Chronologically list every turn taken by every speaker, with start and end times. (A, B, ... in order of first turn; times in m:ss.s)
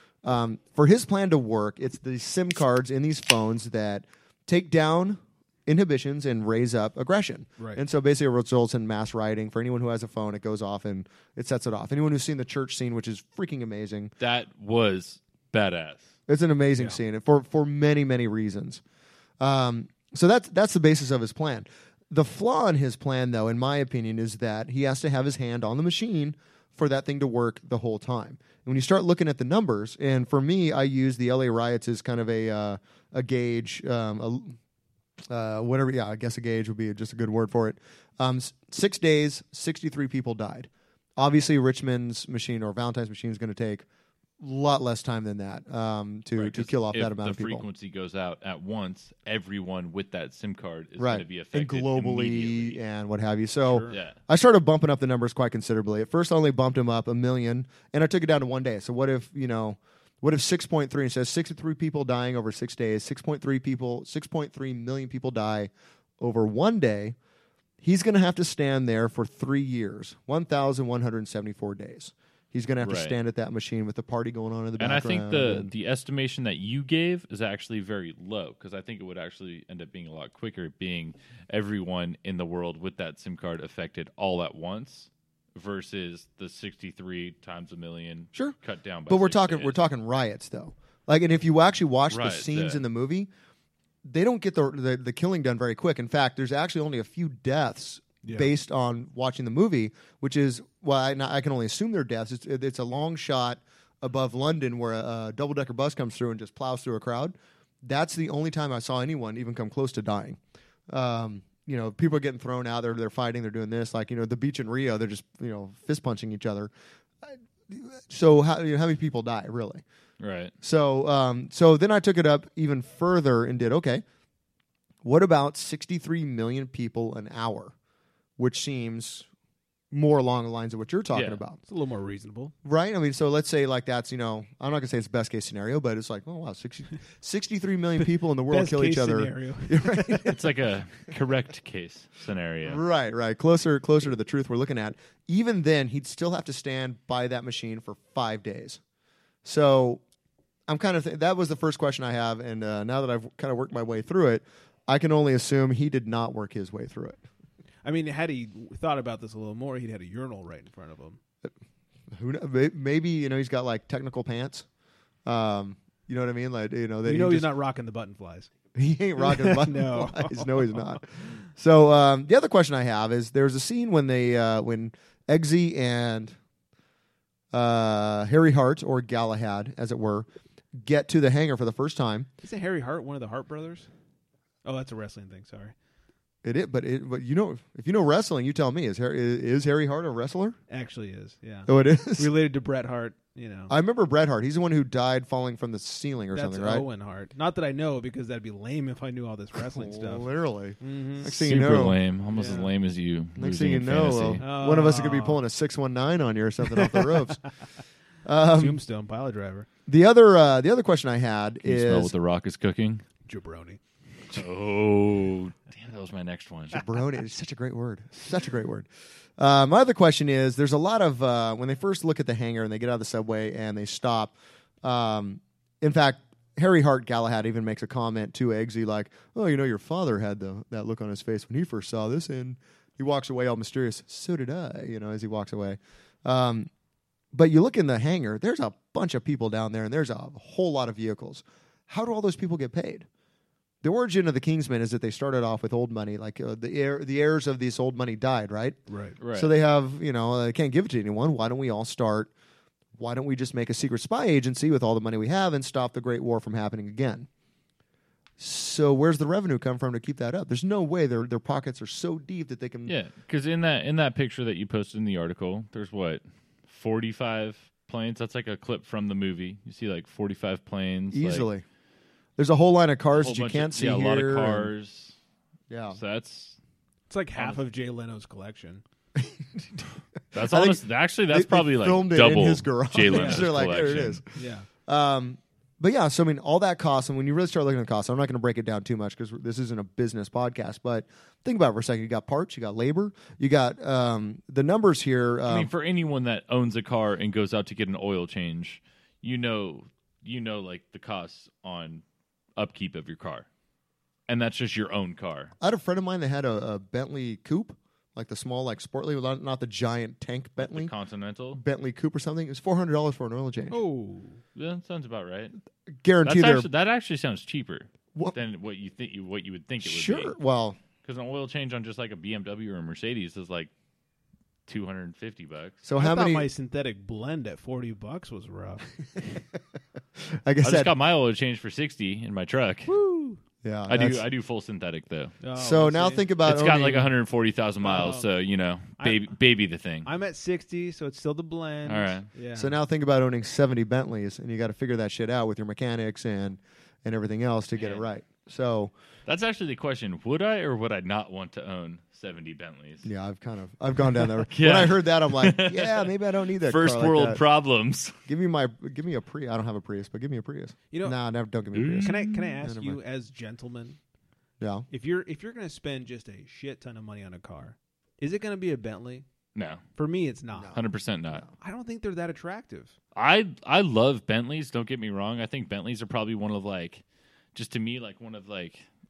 0:00.2-0:14.1 A
0:14.2-0:16.1 B
0:16.3-0:18.8 A
0:19.4-0:34.6 A
0:35.3-0:43.8 A
0:44.4-0:47.6 A
0:46.4-0:52.8 B
0:51.0-1:07.2 A
0:53.8-0:54.2 B
1:07.8-1:15.7 A
1:12.8-1:13.2 B
1:14.8-1:29.8 B
1:29.1-1:33.3 A
1:32.1-1:32.8 B
1:34.0-1:56.7 A
1:38.2-1:38.5 C
1:57.2-1:59.8 A
2:00.2-2:00.5 B
2:00.6-2:04.0 A
2:05.0-2:07.7 A
2:08.4-2:09.3 A
2:09.9-2:11.6 A
2:11.1-2:11.4 B
2:11.7-2:12.5 C
2:12.6-2:20.4 A
2:18.5-2:20.3 C
2:20.2-2:22.8 B
2:22.6-2:28.8 A
2:29.4-2:30.0 A
2:30.7-2:37.2 A
2:37.8-2:41.2 C
2:42.1-2:44.7 A
2:45.3-2:47.5 A
2:47.0-2:48.5 C
2:48.8-2:56.4 A
2:49.2-2:50.9 C
2:57.5-3:02.3 A
3:02.4-3:03.9 C
3:04.6-3:05.8 C
3:06.4-3:10.6 A
3:10.7-3:13.7 C
3:11.7-3:12.3 A
3:13.7-3:16.9 A
3:16.3-3:21.3 C
3:19.6-3:22.6 A
3:21.2-3:24.4 B
3:22.3-3:22.7 C
3:23.4-3:27.4 A
3:24.4-3:25.4 C
3:26.8-3:27.1 C
3:28.2-3:28.8 A
3:28.5-3:29.7 C
3:29.9-3:32.1 A
3:31.6-3:33.0 B
3:33.3-3:33.8 C
3:34.3-3:36.8 B
3:36.7-3:56.7 A
3:57.3-4:03.1 A
4:03.8-4:08.8 A
4:08.9-4:09.2 C
4:09.2-4:09.5 B
4:09.3-4:12.3 A
4:13.0-4:17.3 A
4:18.4-4:22.9 A
4:22.9-4:31.5 B
4:31.1-4:31.6 A
4:32.4-4:34.7 A
4:33.2-4:35.2 B
4:35.7-4:36.0 A
4:35.9-4:36.6 B
4:37.1-4:38.8 C
4:39.2-4:44.2 A
4:40.3-4:44.2 B
4:43.1-4:43.5 C
4:44.3-4:44.7 C
4:44.9-4:55.7 A
4:55.5-5:02.0 B
5:02.6-5:03.5 B
5:04.3-5:05.5 B
5:05.6-5:10.9 A
5:10.6-5:11.6 B
5:11.5-5:13.8 A
5:13.7-5:14.4 C
5:14.6-5:15.6 B
5:16.0-5:16.7 A
5:16.2-5:20.4 B
5:19.8-5:20.8 A
5:21.0-5:23.7 B
5:24.7-5:25.8 B
5:25.8-5:26.5 A
5:26.0-5:28.9 C
5:30.3-5:30.9 A
5:30.6-5:32.9 B
5:32.9-5:33.4 C
5:33.6-5:34.2 A
5:33.9-5:35.4 B
5:35.4-5:36.3 C
5:35.6-5:37.1 A
5:36.4-5:40.1 B
5:37.8-5:38.3 C
5:39.0-5:39.3 C
5:40.0-5:42.8 C
5:41.9-5:42.3 B
5:42.6-5:48.9 A
5:47.8-5:48.0 B
5:49.3-5:53.1 B
5:53.0-5:57.4 A
5:54.3-5:58.2 B
5:58.3-6:03.0 A
6:00.9-6:01.2 C
6:01.7-6:02.5 B
6:02.0-6:04.0 C
6:04.6-6:04.9 A
6:04.9-6:09.3 C
6:09.6-6:09.8 B
6:10.0-6:10.8 C
6:10.6-6:11.5 A
6:10.7-6:11.4 B
6:11.6-6:13.0 C
6:13.2-6:17.0 B
6:17.6-6:18.9 B